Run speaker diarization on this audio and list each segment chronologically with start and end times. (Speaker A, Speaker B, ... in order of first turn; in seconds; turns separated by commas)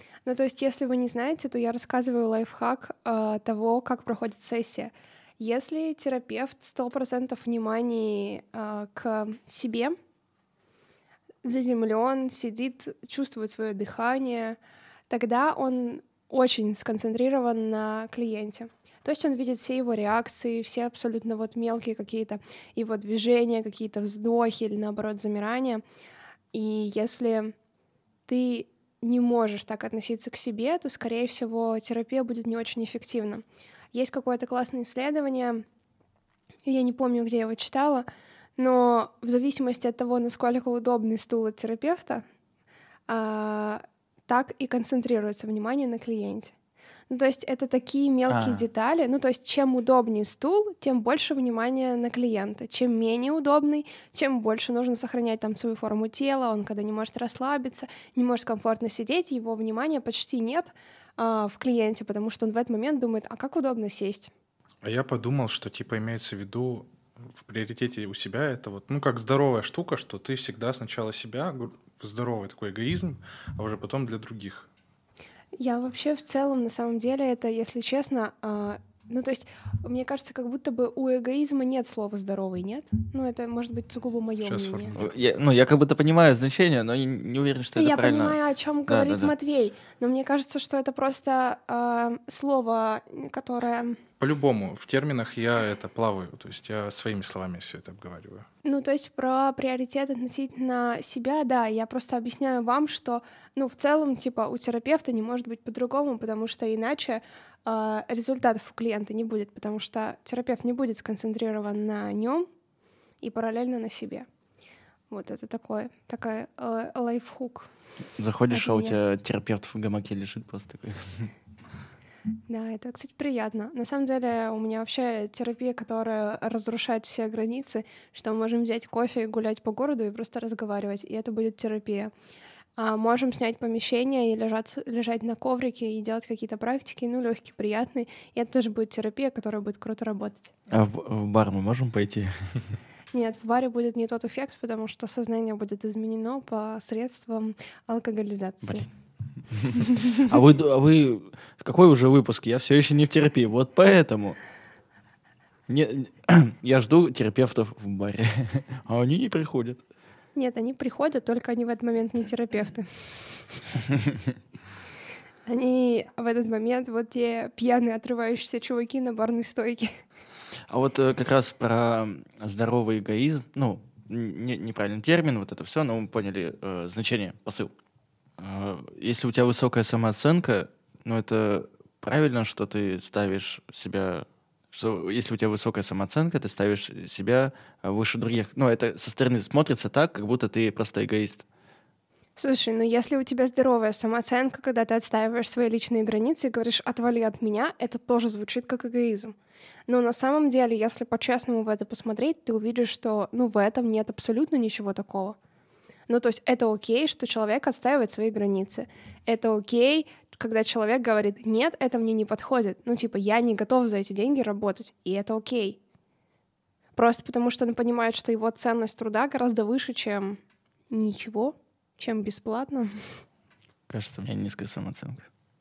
Speaker A: 0.2-9.9, Speaker A: 11.4-14.6, Speaker A: 15.1-25.8, Speaker A: 26.5-27.5, Speaker A: 28.3-35.6, Speaker A: 36.6-38.0, Speaker A: 38.6-42.2, Speaker A: 43.1-46.5, Speaker A: 47.1-64.3, Speaker B: 48.3-48.6, Speaker C: 64.8-74.7, Speaker A: 75.6-85.0, Speaker C: 84.4-85.2, Speaker B: 85.0-89.3, Speaker A: 87.8-94.0, Speaker C: 94.2-98.5, Speaker A: 98.6-112.5, Speaker A: 113.2-114.3, Speaker A: 115.1-117.7, Speaker B: 118.2-121.3, Speaker A: 118.5-119.0, Speaker A: 122.5-132.1, Speaker A: 132.8-140.5, Speaker B: 140.7-142.7, Speaker A: 143.1-148.9, Speaker B: 149.5-154.4, Speaker A: 149.9-150.3, Speaker B: 155.7-159.8, Speaker A: 160.3-163.5, Speaker A: 165.4-170.0, Speaker B: 170.7-177.7, Speaker B: 178.4-191.4, Speaker A: 192.3-199.3, Speaker A: 199.9-205.4, Speaker A: 206.1-215.8, Speaker A: 216.9-223.1, Speaker B: 223.9-225.3